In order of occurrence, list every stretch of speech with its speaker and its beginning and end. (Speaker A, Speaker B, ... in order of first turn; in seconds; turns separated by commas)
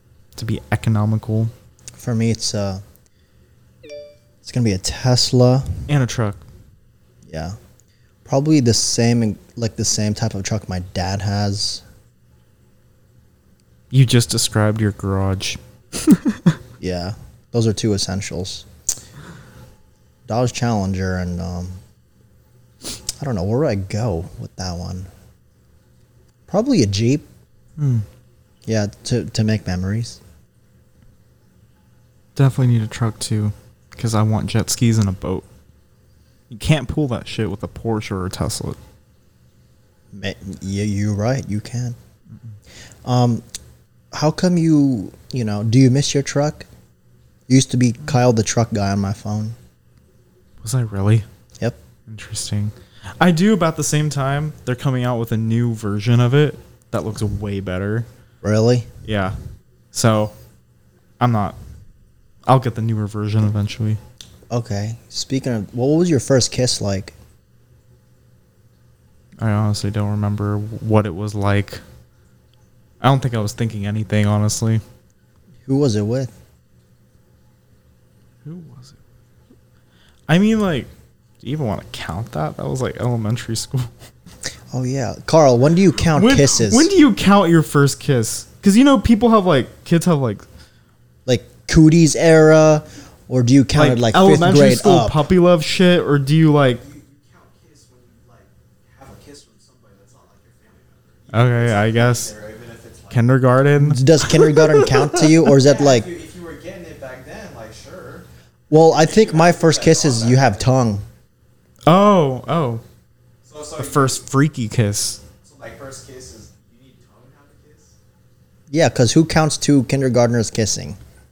Speaker A: 0.3-1.5, Speaker B: 2.0-2.8, Speaker B: 4.4-5.7, Speaker A: 5.9-6.4, Speaker B: 7.2-7.6, Speaker B: 8.2-11.8, Speaker A: 13.9-16.5, Speaker B: 16.8-18.7, Speaker B: 20.3-21.8, Speaker B: 23.2-25.1, Speaker B: 26.5-27.3, Speaker A: 27.8-28.0, Speaker B: 28.6-30.2, Speaker A: 32.4-35.5, Speaker A: 36.5-38.8, Speaker B: 40.1-42.0, Speaker B: 43.0-43.4, Speaker B: 44.1-46.7, Speaker B: 47.5-49.6, Speaker A: 50.6-51.2, Speaker A: 52.1-58.1, Speaker B: 58.4-58.9, Speaker A: 59.0-59.4, Speaker A: 59.9-60.3, Speaker A: 61.2-61.6, Speaker A: 62.5-64.0, Speaker B: 64.5-67.1, Speaker A: 69.4-71.8, Speaker A: 73.0-74.8, Speaker B: 75.7-76.3, Speaker A: 78.4-79.0, Speaker A: 80.3-80.9, Speaker A: 81.4-83.9, Speaker B: 84.7-86.9, Speaker A: 86.1-90.4, Speaker B: 91.2-95.2, Speaker A: 93.7-96.8, Speaker C: 96.8-103.2, Speaker A: 101.3-102.3, Speaker A: 103.1-105.4, Speaker B: 103.8-106.1, Speaker C: 105.5-110.7, Speaker B: 108.7-111.0, Speaker A: 111.9-112.8, Speaker C: 113.4-114.2, Speaker A: 113.8-115.2, Speaker C: 115.4-118.0, Speaker B: 118.7-121.0